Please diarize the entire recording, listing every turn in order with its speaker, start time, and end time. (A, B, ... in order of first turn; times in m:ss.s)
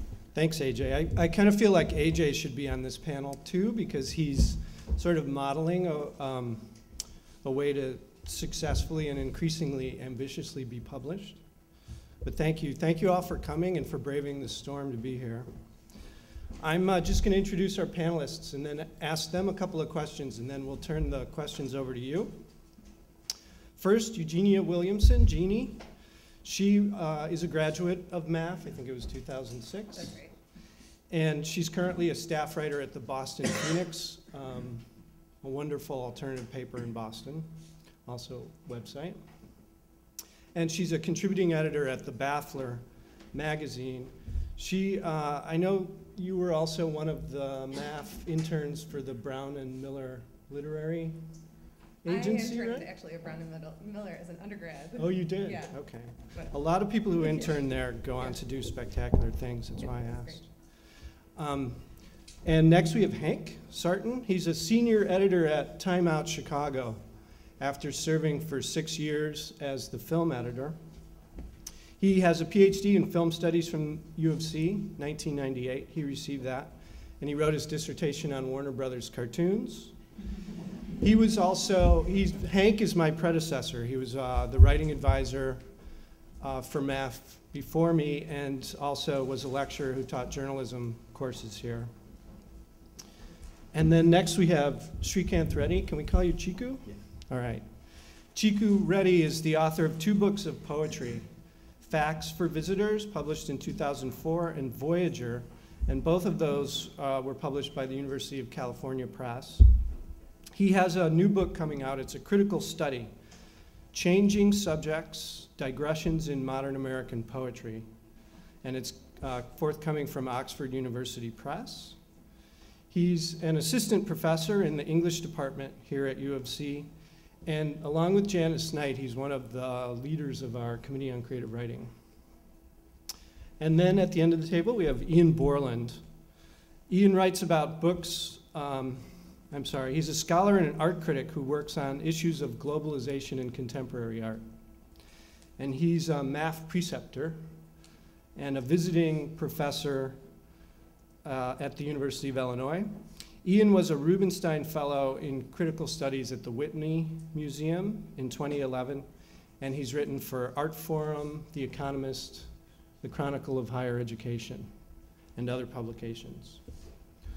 0:00.3-0:11.4 A
0:12.2-0:15.5 A
0:16.6-0:22.4 A
0:23.8-0:25.8 A
0:26.4-0:30.2 A
0:30.0-0:30.3 B
0:31.1-0:34.8 A
0:35.4-0:37.5 A
0:38.0-0:39.2 A
0:40.5-0:51.2 A
0:52.0-0:52.9 A
0:52.0-0:56.5 B
0:55.0-1:07.0 A
0:57.1-0:57.5 B
0:59.8-1:00.4 B
1:07.6-1:10.8 A
1:12.0-1:20.0 A
1:21.0-1:25.8 A
1:26.4-1:31.9 A
1:33.7-1:49.7 A
1:50.5-1:53.1 A
1:53.9-1:57.9 A
1:58.6-2:02.0 A
2:02.9-2:12.0 A
2:13.6-2:16.1 A
2:16.9-2:24.4 A
2:25.6-2:27.4 A
2:28.3-2:30.2 A
2:31.2-2:44.8 A
2:45.3-2:46.9 A